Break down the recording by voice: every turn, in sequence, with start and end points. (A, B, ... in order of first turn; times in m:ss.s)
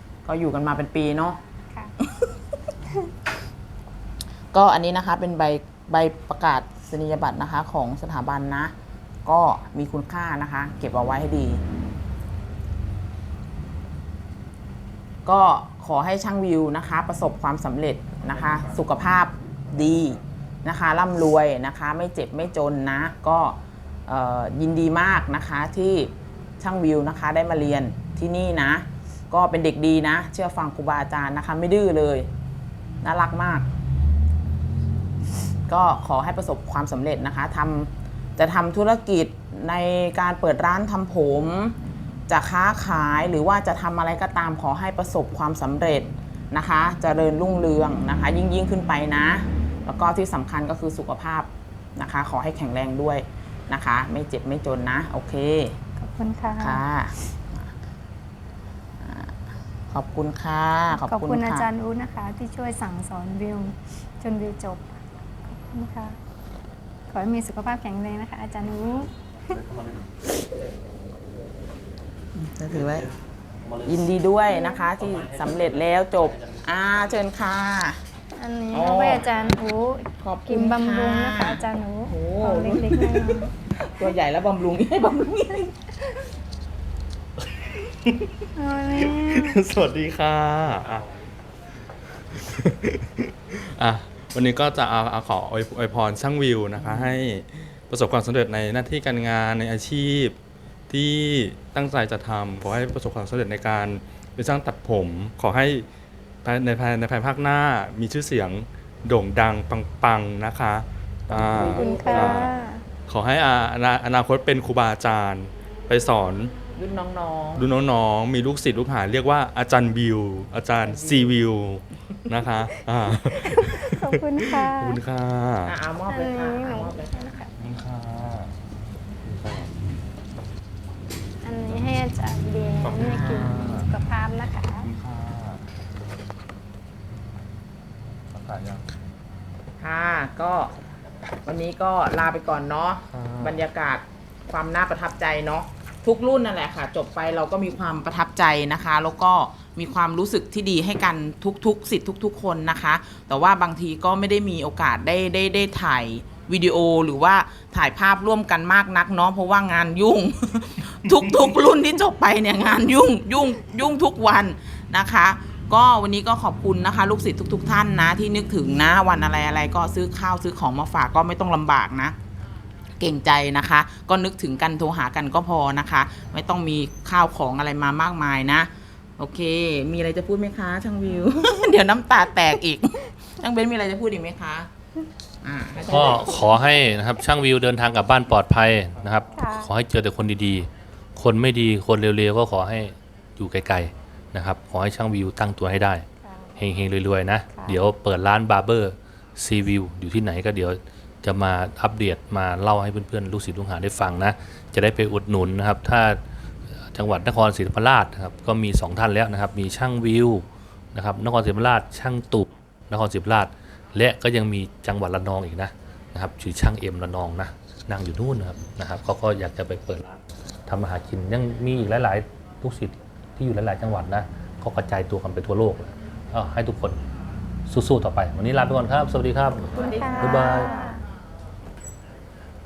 0:00.2-0:01.4 A
0:02.0-0:02.3 A
0:04.5-0:08.7 A
0:09.2-0:11.6 A
0:15.3-0:32.3 A
0:33.0-0:33.7 A
0:35.7-0:41.8 A
0:42.3-0:55.7 A
0:56.0-0:56.8 B
0:56.6-0:57.7 A
0:59.0-0:59.3 A
0:59.9-1:01.7 A
1:00.9-1:05.0 B
1:05.5-1:06.2 B
1:07.1-1:09.1 B
1:12.4-1:13.1 A
1:13.8-1:18.0 A
1:14.5-1:14.9 B
1:18.3-1:23.5 B
1:18.7-1:19.3 A
1:20.2-1:26.1 A
1:28.6-1:29.6 B
1:28.9-1:31.1 C
1:32.4-1:40.4 C
1:36.8-1:37.1 A
1:40.9-1:45.9 C
1:46.4-1:52.5 C
1:51.3-1:52.5 A
1:51.7-1:52.8 B
1:53.1-1:56.6 C
1:56.8-1:57.7 A
1:57.6-2:05.8 C
2:00.8-2:01.4 A
2:03.3-2:05.0 B
2:05.6-2:07.4 A
2:06.1-2:07.5 B
2:07.6-2:08.5 C
2:09.3-2:09.7 C
2:11.4-2:14.9 B
2:12.8-2:13.9 C
2:14.8-2:15.6 C
2:18.3-2:18.9 C
2:19.8-2:20.7 A
2:21.4-2:52.2 A
2:23.1-2:23.6 C
2:53.0-3:04.7 A
3:05.4-3:06.6 A
3:05.9-3:16.1 D
3:09.3-3:09.7 B
3:16.2-3:16.5 B
3:16.6-3:26.2 D
3:17.5-3:17.8 B
3:26.9-3:47.0 D
3:47.7-3:50.7 D
3:49.8-3:50.9 A
3:49.8-3:51.0 B